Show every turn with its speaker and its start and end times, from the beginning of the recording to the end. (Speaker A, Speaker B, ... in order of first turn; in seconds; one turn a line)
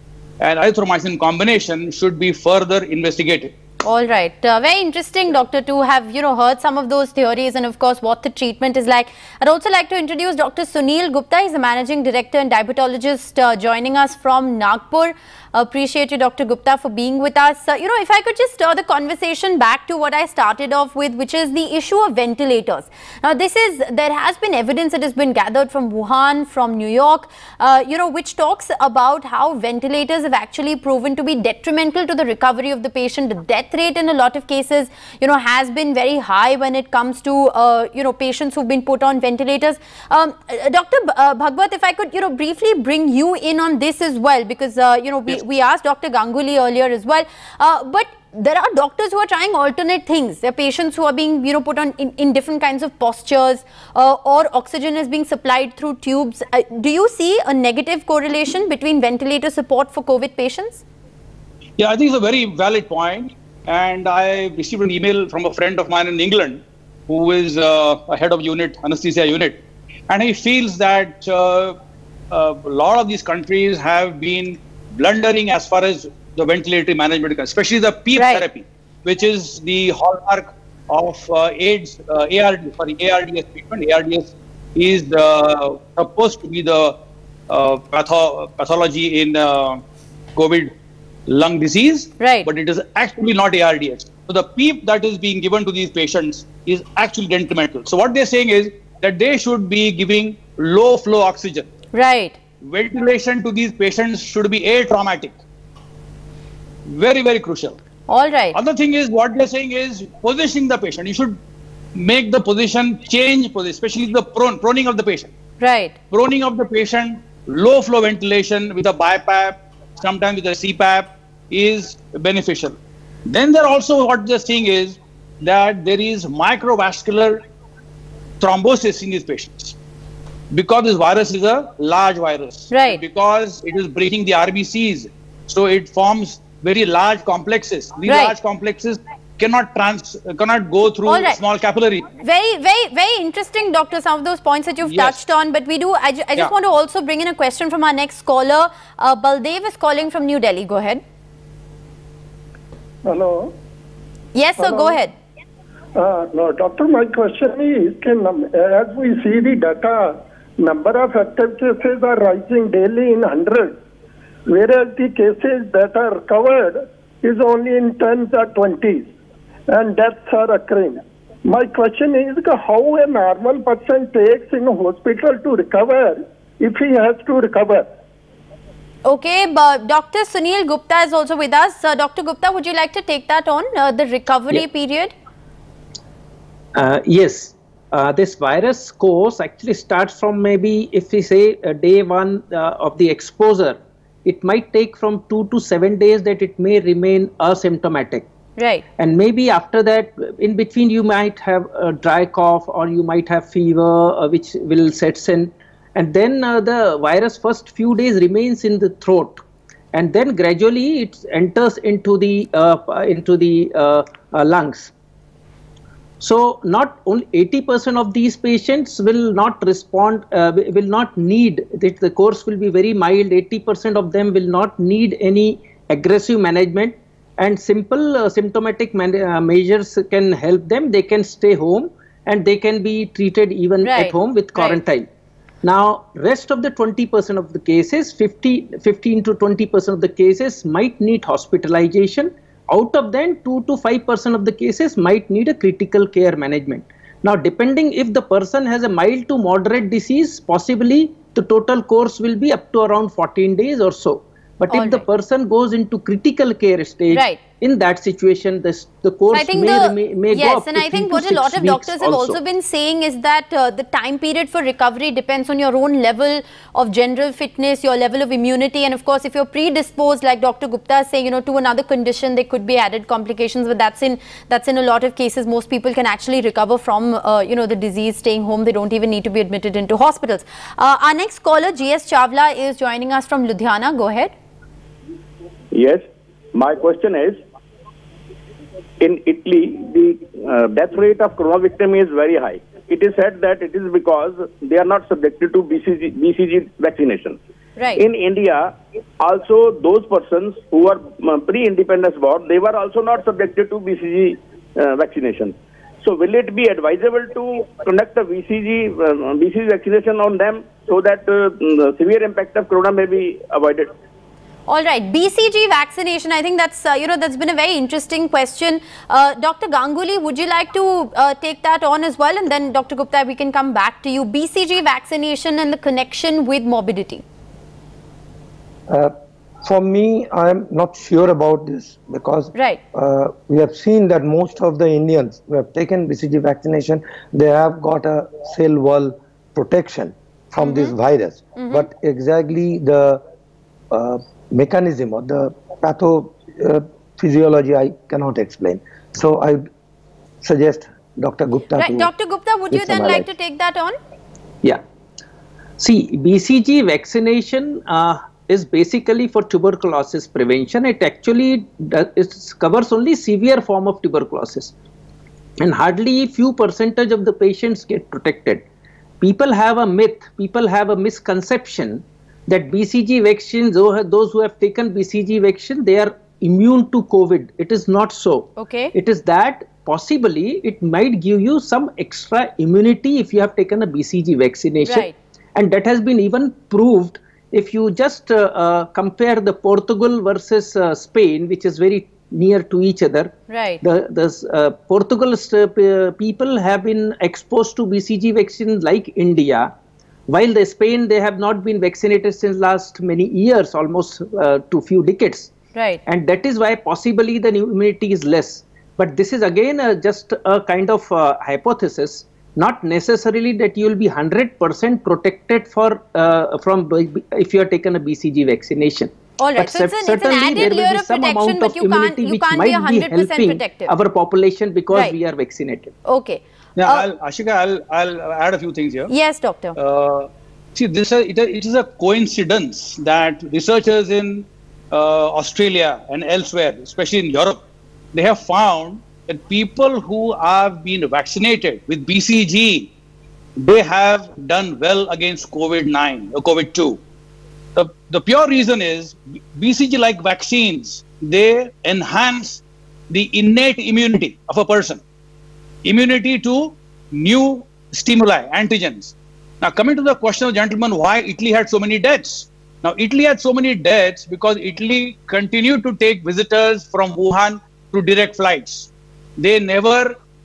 Speaker A: 0.4-3.5
Speaker B: 3.8-60.8
Speaker A: 61.8-71.8
Speaker A: 72.3-87.0
Speaker B: 78.2-78.5
Speaker A: 87.5-89.8
Speaker A: 90.3-90.7
Speaker A: 91.3-101.7
Speaker B: 92.2-92.5
Speaker B: 101.9-102.4
Speaker A: 102.6-105.4
Speaker A: 106.9-107.8
Speaker B: 108.1-108.6
Speaker A: 108.5-111.4
Speaker A: 112.0-115.3
Speaker B: 115.6-116.0
Speaker A: 116.1-122.8
Speaker A: 123.3-127.4
Speaker A: 128.4-129.8
Speaker A: 130.5-142.1
Speaker B: 132.7-133.0
Speaker B: 138.1-138.3
Speaker B: 141.1-141.4
Speaker B: 142.2-151.0
Speaker A: 144.8-145.2
Speaker C: 153.1-153.5
Speaker B: 154.3-155.1
Speaker C: 154.6-155.0
Speaker C: 156.0-163.8
Speaker C: 164.5-169.1
Speaker C: 169.7-177.9
Speaker B: 179.1-185.1
Speaker D: 186.8-198.3
Speaker B: 198.6-198.8
Speaker D: 199.0-209.4
Speaker D: 209.9-214.9
Speaker D: 216.2-235.1
Speaker B: 233.8-234.8
Speaker D: 235.6-262.4
Speaker B: 254.7-255.1
Speaker B: 257.1-257.4
Speaker B: 259.3-284.3
Speaker E: 285.7-287.4
Speaker E: 289.0-297.4
Speaker E: 298.0-313.9
Speaker B: 314.7-327.2
Speaker F: 328.9-343.2
Speaker B: 332.6-332.8
Speaker B: 340.6-341.0
Speaker B: 341.6-341.9
Speaker F: 343.9-349.7
Speaker F: 350.4-352.1
Speaker B: 351.8-354.0
Speaker F: 352.7-353.3
Speaker D: 355.8-364.7
Speaker D: 365.6-368.6
Speaker D: 369.2-399.7
Speaker B: 378.6-378.9
Speaker B: 384.8-385.1
Speaker B: 393.5-393.8
Speaker D: 400.3-405.5
Speaker B: 405.8-406.0
Speaker D: 406.1-425.9
Speaker B: 419.4-423.9
Speaker B: 426.1-427.1
Speaker A: 426.8-429.1
Speaker B: 429.1-429.8
Speaker A: 429.8-437.6
Speaker A: 438.1-442.9
Speaker A: 443.6-447.0
Speaker A: 447.8-455.0
Speaker A: 455.8-470.1